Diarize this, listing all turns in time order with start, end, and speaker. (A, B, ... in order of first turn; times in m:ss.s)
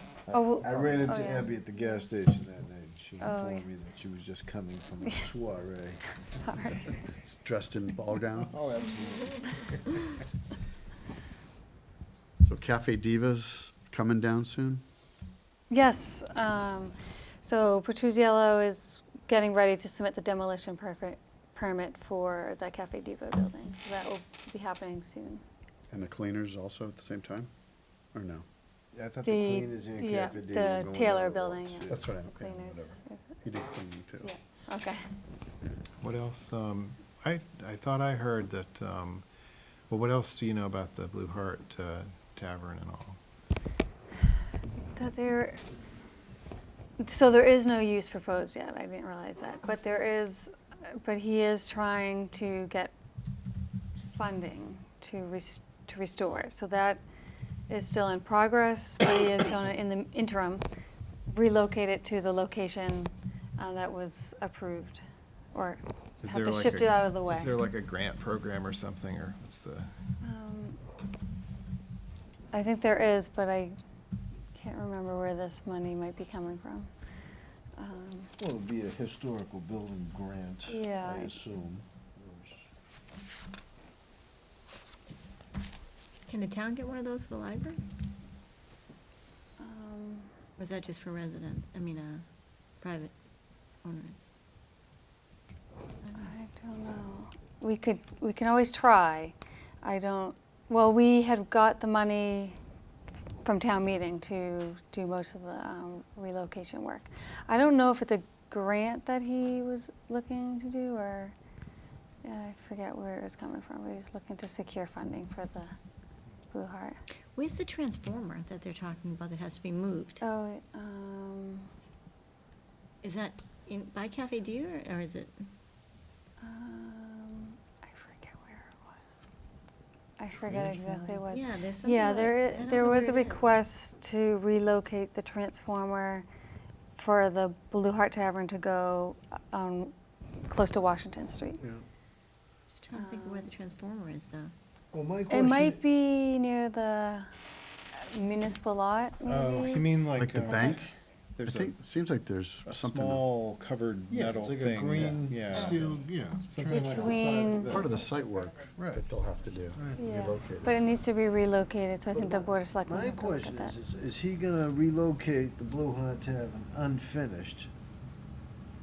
0:00.3-0:02.1 A
0:00.6-0:06.0 B
0:03.2-0:03.7 A
0:06.1-0:07.0 A
0:07.4-0:08.6 C
0:08.5-0:09.7 B
0:12.4-0:14.8 C
0:15.7-0:25.4 A
0:25.9-0:27.5 C
0:28.1-0:28.4 C
0:28.9-0:32.0 B
0:29.2-0:33.3 A
0:31.9-0:34.3 C
0:34.2-0:35.1 A
0:36.0-0:39.3 D
0:39.9-0:43.2 D
0:45.0-0:45.6 A
0:47.0-0:52.9 A
0:54.1-0:57.0 A
0:57.7-1:00.6 A
1:01.3-1:05.0 A
1:05.5-1:07.5 A
1:06.2-1:09.9 D
1:10.2-1:10.8 A
1:12.5-1:13.8 A
1:14.6-1:16.9 A
1:17.8-1:18.3 A
1:18.4-1:22.7 B
1:20.7-1:21.4 A
1:26.3-1:27.8 E
1:29.6-1:30.3 A
1:30.6-1:32.2 E
1:32.8-1:33.1 E
1:33.8-1:34.3 E
1:36.0-1:36.3 E
1:36.2-1:42.6 A
1:43.4-1:51.3 A
1:52.2-1:55.8 A
1:56.5-1:57.0 A
1:57.4-2:00.2 E
2:00.2-2:01.7 A
2:03.0-2:05.4 E
2:06.4-2:09.0 A
2:10.2-2:16.3 A
2:11.0-2:13.4 E
2:17.0-2:19.9 A
2:20.5-2:21.6 A
2:21.6-2:21.8 B
2:22.8-2:24.5 E
2:22.9-2:23.5 A
2:24.9-2:25.8 B
2:25.3-2:27.3 A
2:28.0-2:29.9 A
2:29.2-2:31.8 D
2:30.2-2:30.9 C
2:31.4-2:33.2 C
2:32.7-2:38.0 D
2:34.1-2:37.2 B
2:36.6-2:37.8 A
2:37.2-2:40.7 C
2:38.8-2:39.0 B
2:39.7-2:40.3 B
2:40.0-2:43.8 A
2:42.1-2:47.7 B